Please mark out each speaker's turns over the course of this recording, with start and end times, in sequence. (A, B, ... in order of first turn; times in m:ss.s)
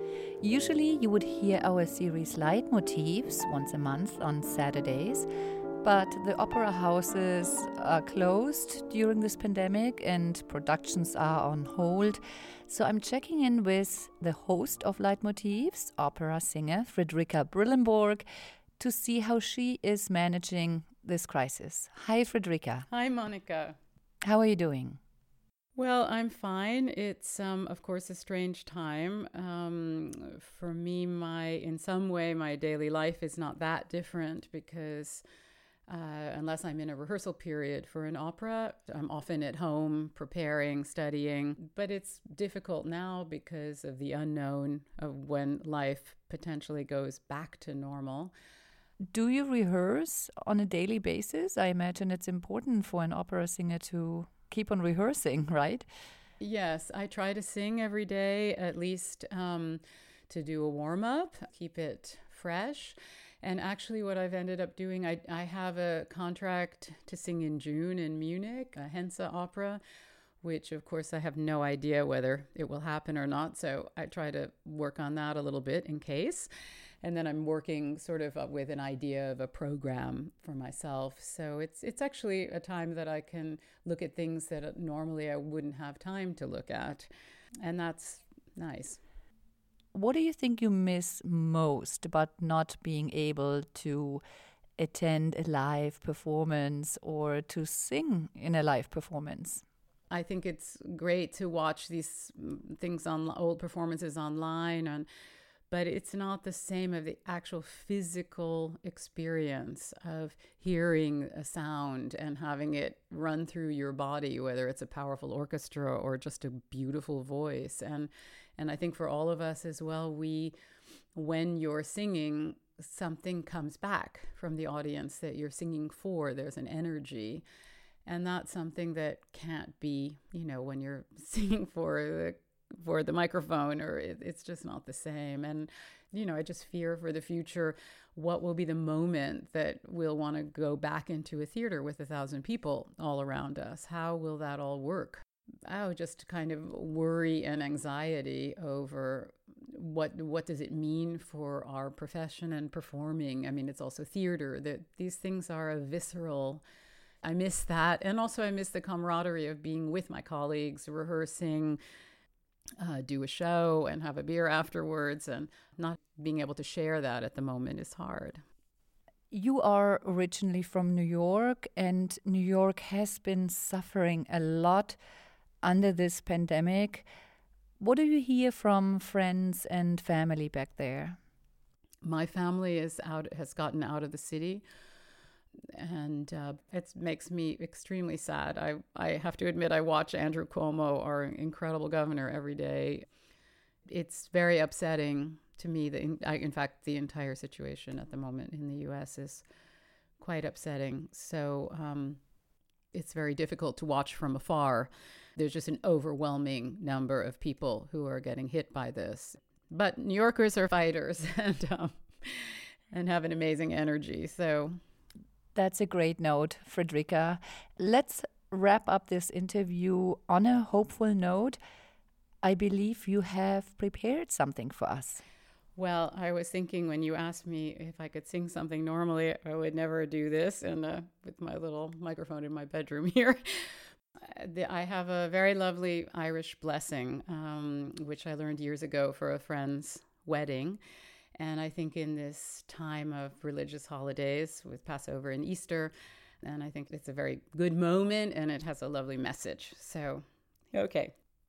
0:00.4-0:05.3 A
0:05.8-0:18.2 A
0:18.8-0:22.9 A
0:22.9-0:23.8 B
0:24.2-0:25.0 A
0:25.8-0:35.2 B
0:35.9-0:48.3 B
0:49.1-0:55.9 A
0:56.4-1:09.8 B
1:10.4-1:16.5 B
1:17.0-1:27.1 B
1:27.6-1:29.0 B
1:29.9-1:34.2 A
1:34.8-1:39.6 A
1:40.1-1:45.1 B
1:45.7-2:00.5 B
2:01.2-2:07.4 B
2:08.1-2:36.6 B
2:37.2-2:41.8 B
2:42.8-2:48.4 B
2:49.3-2:55.0 A
2:55.6-2:57.1 A
2:57.8-3:01.2 A
3:02.0-3:04.6 B
3:05.7-3:13.0 B
3:13.9-3:19.4 B
3:20.2-3:22.2 B
3:22.9-3:34.8 B
3:35.6-3:41.6 A
3:42.4-3:45.2 A
3:45.8-4:00.8 B
4:01.4-4:11.1 B